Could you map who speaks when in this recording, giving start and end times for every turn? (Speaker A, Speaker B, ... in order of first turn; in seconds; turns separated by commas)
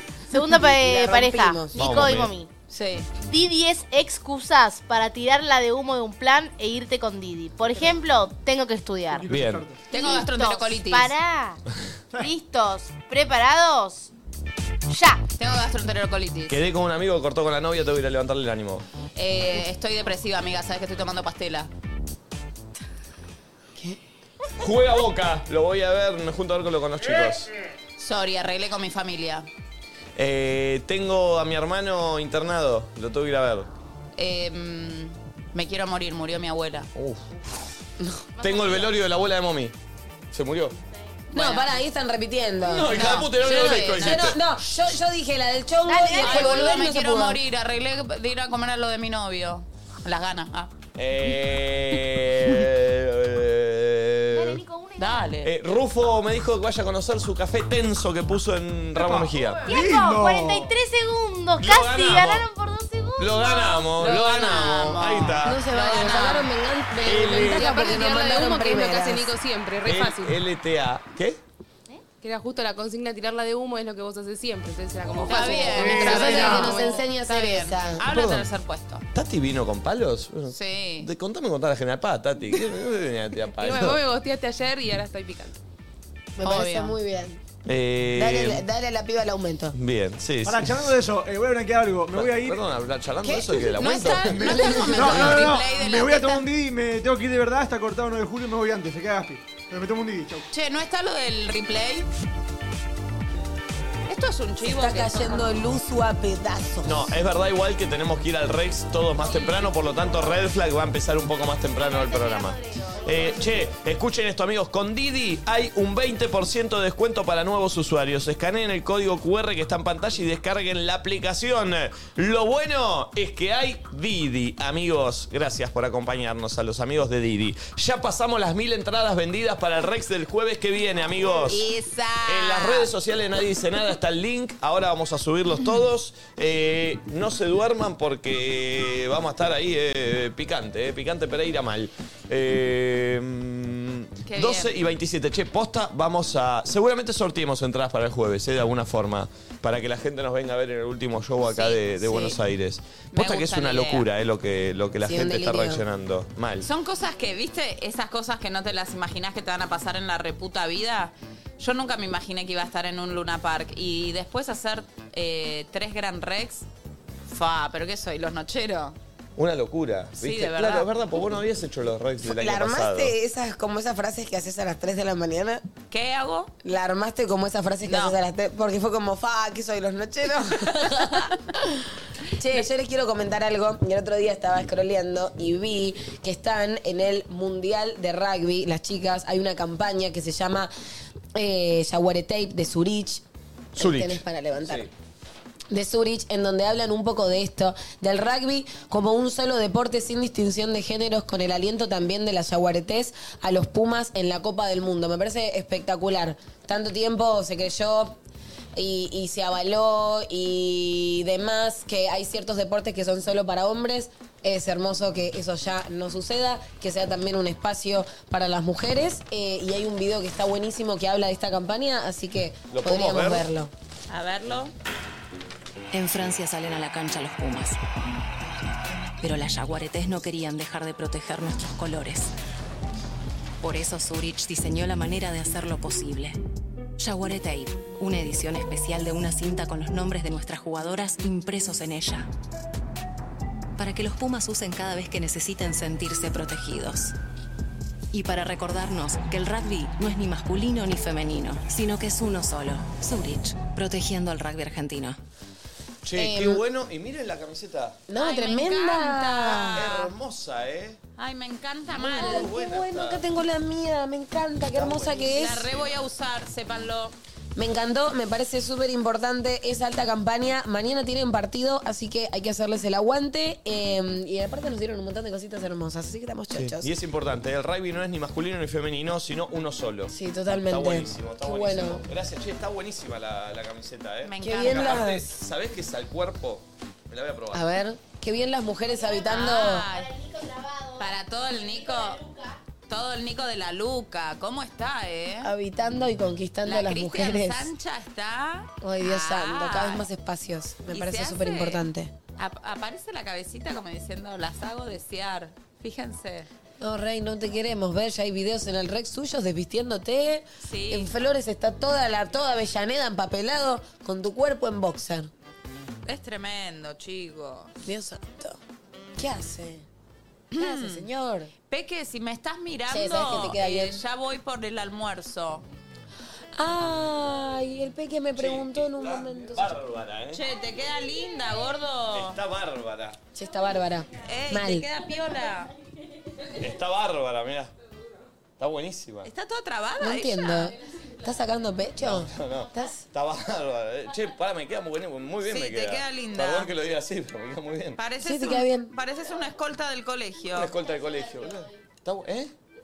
Speaker A: 0.3-2.5, Speaker B: 0.5-1.7, Speaker C: 1.7-2.3, Speaker D: 2.7-3.1, Speaker A: 3.2-9.2, Speaker E: 9.1-9.8, Speaker C: 9.3-9.6, Speaker D: 9.9-11.1, Speaker A: 9.9-11.6, Speaker A: 12.2-14.1, Speaker A: 14.9-15.2, Speaker D: 15.4-16.6, Speaker C: 16.5-18.8, Speaker D: 19.1-21.7, Speaker C: 24.6-27.5, Speaker D: 28.0-29.5, Speaker C: 30.1-33.7, Speaker D: 34.1-36.9, Speaker C: 36.9-37.6, Speaker A: 38.4-39.0, Speaker C: 38.4-39.7, Speaker C: 40.3-40.8, Speaker D: 41.3-41.6, Speaker B: 41.3-47.4, Speaker C: 42.6-44.4, Speaker D: 42.9-44.3, Speaker A: 45.8-46.9, Speaker D: 46.2-50.7, Speaker C: 51.0-54.6, Speaker A: 54.3-55.3, Speaker D: 55.0-55.5, Speaker C: 55.4-59.7, Speaker E: 59.0-60.7, Speaker A: 59.6-64.2, Speaker C: 61.6-62.5, Speaker C: 63.2-65.6, Speaker D: 64.0-66.5, Speaker B: 65.4-69.3, Speaker C: 67.0-67.7, Speaker F: 67.4-70.4, Speaker C: 69.8-71.4, Speaker F: 72.2-77.0, Speaker D: 75.1-79.0, Speaker E: 75.7-76.6, Speaker B: 75.9-78.0, Speaker C: 78.1-78.5, Speaker C: 79.1-84.0, Speaker D: 80.5-81.1, Speaker F: 83.6-85.5, Speaker B: 86.4-87.4, Speaker D: 86.4-86.9, Speaker C: 87.7-88.6, Speaker B: 88.1-89.8, Speaker C: 89.7-90.9, Speaker E: 90.4-92.6, Speaker C: 92.1-95.5, Speaker D: 93.8-96.4, Speaker E: 94.3-100.5, Speaker D: 100.5-102.1, Speaker D: 104.1-105.5, Speaker B: 104.6-107.1, Speaker C: 106.8-131.6, Speaker A: 110.0-110.3, Speaker A: 111.7-113.7, Speaker D: 131.5-132.9, Speaker C: 132.3-156.7, Speaker D: 144.2-144.7, Speaker D: 151.4-151.8, Speaker B: 152.0-152.3, Speaker D: 153.1-154.1, Speaker B: 155.0-155.8, Speaker D: 156.6-166.7, Speaker D: 167.3-169.0, Speaker C: 169.3-173.1, Speaker D: 170.2-170.9, Speaker B: 172.2-175.6, Speaker D: 175.9-176.5, Speaker B: 176.6-181.7, Speaker D: 177.8-178.2, Speaker B: 182.3-190.7, Speaker B: 191.3-193.2, Speaker B: 193.7-194.9, Speaker C: 193.8-194.9, Speaker B: 195.7-208.2, Speaker B: 208.7-223.7, Speaker C: 222.7-223.4, Speaker D: 224.1-224.7, Speaker G: 225.9-227.8, Speaker G: 229.2-232.3, Speaker G: 233.6-236.4, Speaker G: 237.0-242.3, Speaker G: 243.8-247.1, Speaker G: 248.1-255.2, Speaker C: 256.0-258.0, Speaker B: 256.1-256.6, Speaker B: 258.1-259.9, Speaker D: 258.1-260.1, Speaker C: 259.7-261.0, Speaker D: 261.2-262.5, Speaker C: 261.9-263.2, Speaker B: 262.1-265.7, Speaker C: 264.7-266.0, Speaker D: 265.2-267.1, Speaker B: 267.6-276.9, Speaker C: 276.5-287.7, Speaker B: 280.1-282.1, Speaker D: 284.2-285.1, Speaker B: 284.4-285.2, Speaker B: 287.5-289.9, Speaker A: 288.9-292.6, Speaker D: 289.3-290.1, Speaker D: 291.0-292.2, Speaker D: 292.9-295.5, Speaker B: 295.4-297.7, Speaker D: 296.6-300.0, Speaker B: 298.8-302.1, Speaker D: 300.9-301.8, Speaker D: 302.4-306.5, Speaker B: 306.8-315.3, Speaker D: 310.6-311.1, Speaker D: 316.0-317.7, Speaker B: 317.8-318.6, Speaker B: 319.1-319.8, Speaker D: 320.5-321.1, Speaker B: 320.6-321.5, Speaker D: 321.7-325.6, Speaker B: 322.9-324.0, Speaker B: 326.5-329.8, Speaker C: 328.4-330.4, Speaker D: 330.3-332.4, Speaker C: 332.1-333.2, Speaker B: 333.3-334.9, Speaker D: 334.2-335.7, Speaker C: 336.6-337.7, Speaker C: 338.6-339.3, Speaker D: 339.2-340.7, Speaker B: 340.0-343.1, Speaker C: 342.0-348.0, Speaker D: 345.4-346.7, Speaker D: 348.0-350.7, Speaker B: 348.2-348.9, Speaker C: 350.5-352.5